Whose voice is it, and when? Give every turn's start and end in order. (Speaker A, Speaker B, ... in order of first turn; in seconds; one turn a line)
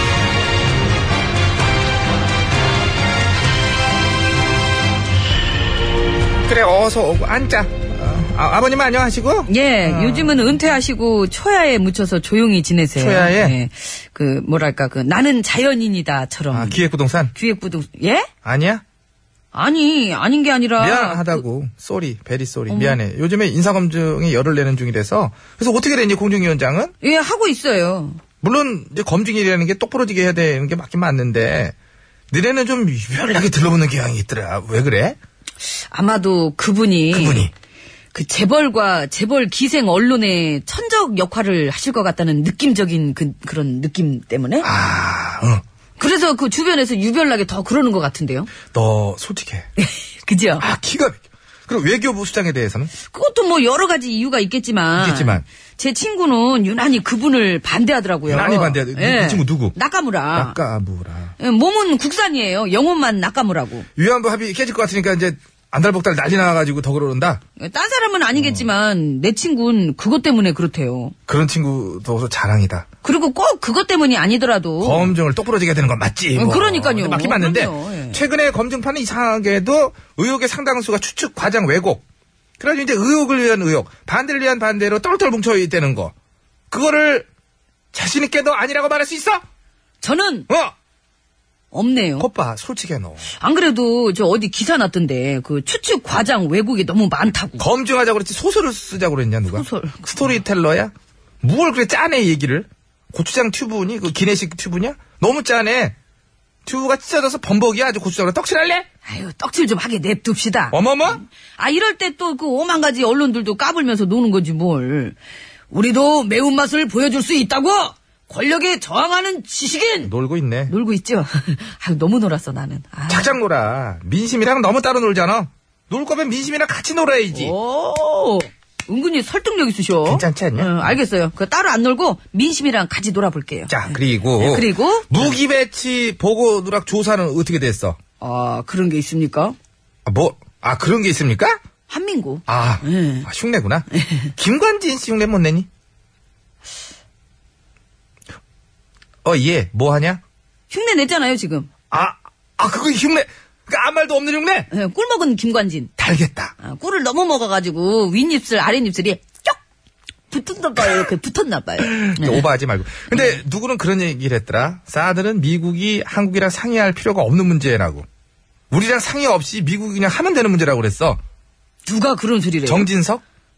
Speaker A: 6.5-10.4
Speaker B: 9.5-16.8
Speaker A: 12.9-13.6
Speaker A: 16.5-17.3
Speaker B: 17.3-18.3
Speaker A: 18.4-18.8
Speaker B: 19.5-21.4
Speaker A: 20.8-26.9
Speaker B: 22.7-23.0
Speaker B: 27.0-28.2
Speaker A: 28.4-31.7
Speaker A: 32.3-35.2
Speaker B: 35.6-37.5
Speaker A: 37.1-37.5
Speaker B: 38.1-44.7
Speaker A: 44.6-45.6
Speaker B: 46.0-48.5
Speaker A: 48.7-49.7
Speaker B: 49.8-50.6
Speaker A: 50.6-52.9
Speaker B: 53.0-60.6
Speaker A: 54.9-55.4
Speaker A: 58.3-59.7
Speaker A: 60.3-61.3
Speaker B: 61.4-63.9
Speaker A: 64.0-67.4
Speaker B: 67.6-71.1
Speaker A: 68.4-68.7
Speaker A: 71.3-72.8
Speaker B: 73.0-75.1
Speaker A: 74.8-82.0
Speaker B: 76.3-78.2
Speaker A: 82.6-86.1
Speaker A: 86.7-87.3
Speaker A: 87.9-89.4
Speaker B: 90.0-90.5
Speaker B: 91.7-92.3
Speaker A: 92.2-93.2
Speaker B: 93.3-97.6
Speaker A: 97.6-105.9
Speaker B: 99.5-100.3
Speaker A: 106.7-108.8
Speaker B: 109.0-115.2
Speaker A: 110.7-111.2
Speaker B: 115.7-120.1
Speaker A: 120.0-120.7
Speaker B: 120.7-123.3
Speaker A: 123.1-127.5
Speaker B: 127.3-135.4
Speaker A: 130.0-130.9
Speaker A: 133.7-138.0
Speaker B: 138.2-139.6
Speaker A: 140.0-141.6
Speaker B: 141.9-143.3
Speaker A: 142.5-145.7
Speaker B: 143.9-144.3
Speaker A: 149.2-150.2
Speaker B: 150.7-151.7
Speaker A: 151.9-154.7
Speaker B: 154.7-155.9
Speaker A: 156.0-156.5
Speaker B: 156.6-159.6
Speaker B: 160.3-162.4
Speaker A: 162.0-168.1
Speaker A: 168.7-171.2
Speaker B: 171.8-172.9
Speaker A: 172.7-173.2